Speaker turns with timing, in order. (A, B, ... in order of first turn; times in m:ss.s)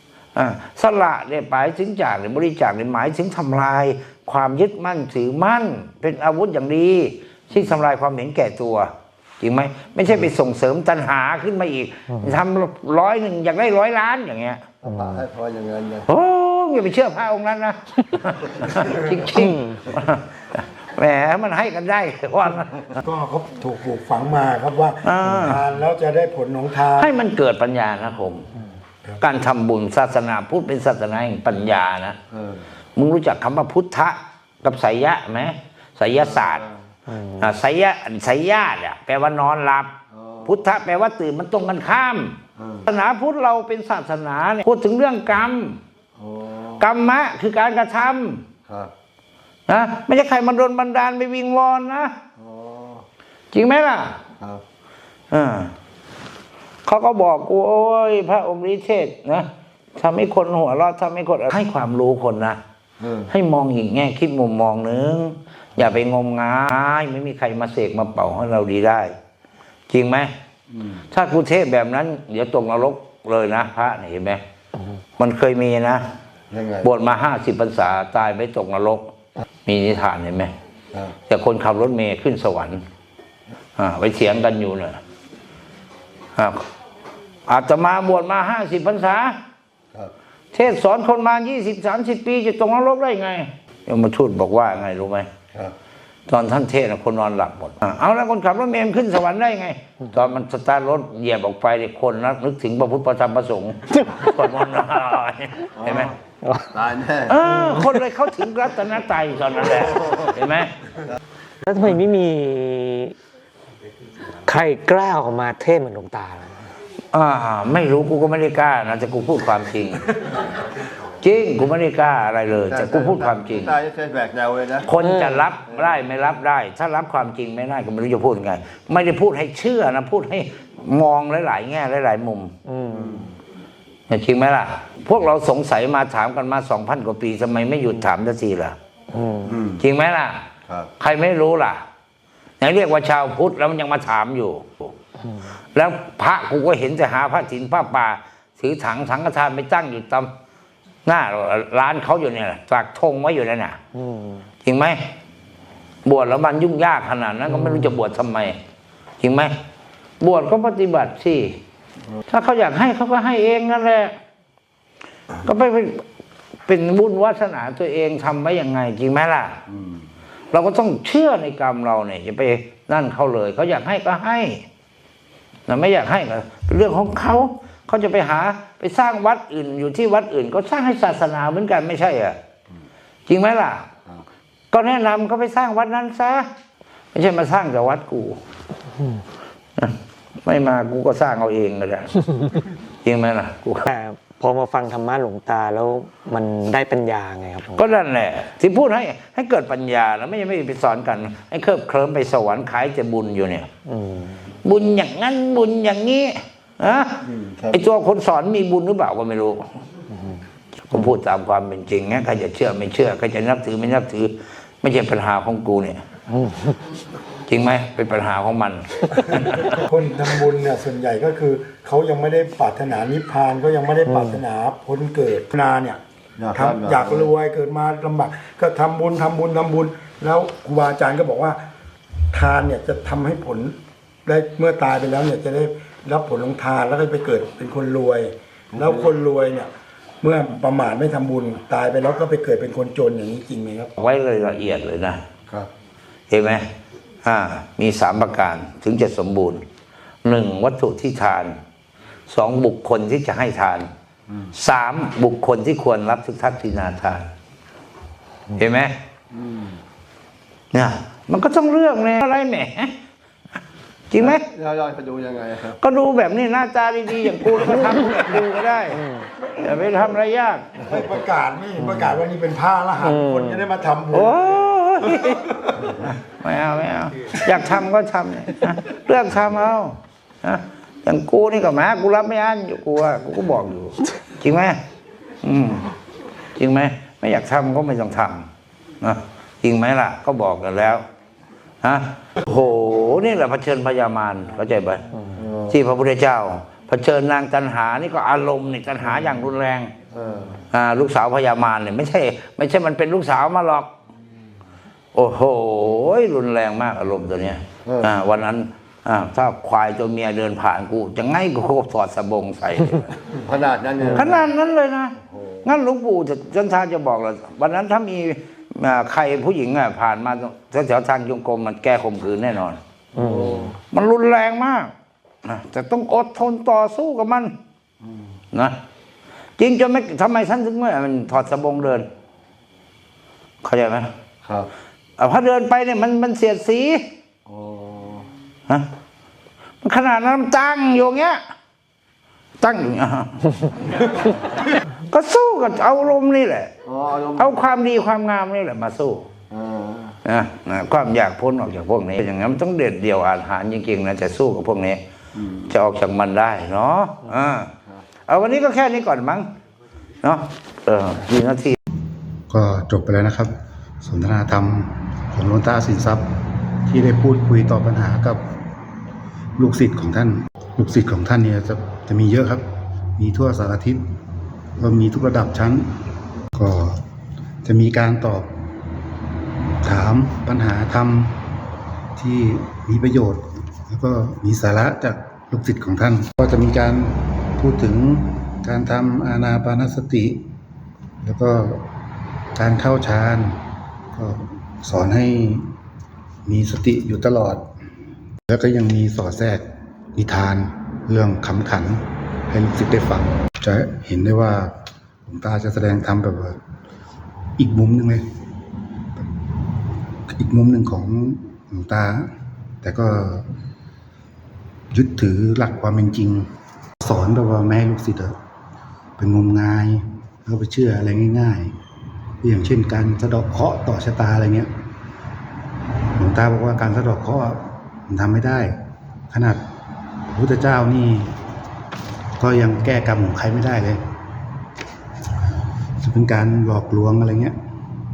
0:00.3-0:14.6 A
0:14.8-0:16.1 B
0:16.1-0:20.2 A
0:19.4-0:19.8 C
0:20.9-0:23.0 A
0:23.0-0:27.1 D
0:25.0-0:25.6 A
0:27.0-0:28.5 A
0:29.2-0:32.2 A
0:32.3-0:32.7 B
0:33.0-0:36.6 A
0:36.1-0:36.8 B
0:37.1-0:37.4 C
0:37.4-0:39.9 A
0:40.1-0:40.6 B
0:40.4-0:45.8 A
0:42.6-0:42.9 B
0:46.2-0:46.9 B
0:46.8-0:48.4 A
0:48.6-0:48.9 B
0:49.7-0:52.2 A
0:52.4-0:53.0 B
0:53.5-0:54.2 A
0:55.3-0:55.7 A
0:56.8-1:02.6 A
1:03.0-1:03.3 B
1:03.3-1:09.1 A
1:09.9-1:10.3 A
1:10.7-1:11.0 B
1:11.1-1:14.4 A
1:15.2-1:16.0 A
1:16.5-1:16.9 B
1:16.8-1:19.1 A
1:19.6-1:20.5 A
1:21.3-1:22.8 A
1:23.8-1:25.0 A
1:26.4-1:26.6 A
1:27.5-1:29.4 A
1:30.5-1:35.3 A
1:36.3-1:46.1 A
1:45.8-1:46.2 B
1:46.7-1:47.4 B
1:47.3-1:50.7 A
1:49.9-1:50.3 B
1:51.6-1:53.2 C
1:54.4-1:56.6 C
1:57.1-2:00.2 A
2:01.2-2:03.7 A
2:02.7-2:04.9 B
2:04.8-2:12.5 A
2:05.0-2:05.4 C
2:05.7-2:06.0 B
2:12.7-2:13.2 C
2:12.9-2:13.3 B
2:14.1-2:18.8 A
2:19.1-2:19.5 C
2:19.4-2:19.8 B
2:19.8-2:20.4 A
2:20.6-2:20.9 B
2:21.0-2:21.8 A
2:22.6-2:24.9 A
2:25.7-2:30.3 A
2:31.0-2:33.8 A
2:33.9-2:34.4 C
2:34.6-2:35.1 A
2:36.0-2:38.6 A
2:39.2-2:39.6 A
2:40.2-2:41.6 A
2:42.3-2:44.1 A
2:45.4-2:46.0 A
2:46.6-2:49.6 A
2:49.7-2:50.1 B
2:50.5-2:54.6 A
2:55.7-3:02.4 A
3:03.3-3:03.9 A
3:04.7-3:06.5 A
3:07.1-3:08.4 A
3:09.8-3:13.9 A
3:13.8-3:17.9 C
3:17.8-3:23.7 A
3:23.9-3:24.4 C
3:24.6-3:29.7 A
3:27.2-3:27.8 B
3:30.8-3:36.0 A
3:36.3-3:36.8 C
3:37.5-3:39.6 A
3:39.6-3:46.0 D
3:46.4-3:47.3 B
3:46.5-3:51.6 D
3:52.3-3:59.7 D
3:58.7-3:59.1 B
4:00.2-4:03.9 D
4:04.0-4:05.2 A
4:06.3-4:06.7 A
4:07.2-4:09.6 A
4:10.2-4:11.6 A
4:12.3-4:13.9 A
4:14.3-4:14.5 B
4:14.5-4:17.3 A
4:18.6-4:19.0 A
4:19.3-4:19.8 B
4:20.7-4:22.9 A
4:24.1-4:24.4 A
4:24.2-4:25.8 B
4:25.8-4:29.0 A
4:28.9-4:29.2 C
4:29.6-4:30.6 A
4:30.8-4:35.9 D
4:33.0-4:33.7 C
4:34.1-4:44.8 A
4:45.4-4:45.9 A
4:46.6-4:48.5 A
4:49.0-4:51.0 A
4:51.8-4:55.1 A
4:55.3-4:55.8 B
4:55.7-4:59.9 A
5:00.1-5:00.6 B
5:00.7-5:03.9 A
5:05.1-5:13.2 A
5:07.8-5:08.2 B
5:13.3-5:14.5 B
5:14.1-5:22.8 A
5:15.2-5:15.7 B
5:23.1-5:23.8 B
5:23.2-5:23.6 C
5:23.9-5:24.9 A
5:25.4-5:27.5 A
5:28.0-5:28.3 B
5:29.6-5:32.1 A
5:33.6-5:34.1 A
5:34.4-5:34.7 B
5:35.2-5:37.0 A
5:37.4-5:38.3 B
5:39.8-5:41.4 A
5:42.6-5:44.3 A
5:45.1-5:46.7 A
5:46.8-5:47.6 B
5:47.4-5:49.3 A
5:49.5-5:50.2 B
5:50.2-5:55.0 A
5:55.3-5:55.7 B
5:55.7-5:57.7 A
5:58.3-5:59.5 A
6:00.2-6:01.8 A
6:02.5-6:08.5 E
6:09.6-6:14.0 E
6:14.8-6:16.0 E
6:16.5-6:17.0 E
6:17.6-6:18.6 E
6:19.8-6:21.5 E
6:22.2-6:30.4 E
6:31.2-6:31.9 E
6:32.5-6:35.7 E
6:36.4-6:37.7 E
6:38.5-6:46.6 E
6:47.6-6:48.2 E
6:50.3-6:53.5 E
6:54.9-6:58.4 E
6:59.2-7:01.8 E
7:02.4-7:04.7 E
7:06.2-7:08.8 E
7:09.3-7:09.6 E
7:10.3-7:11.4 E
7:12.4-7:14.1 E
7:16.0-7:17.6 E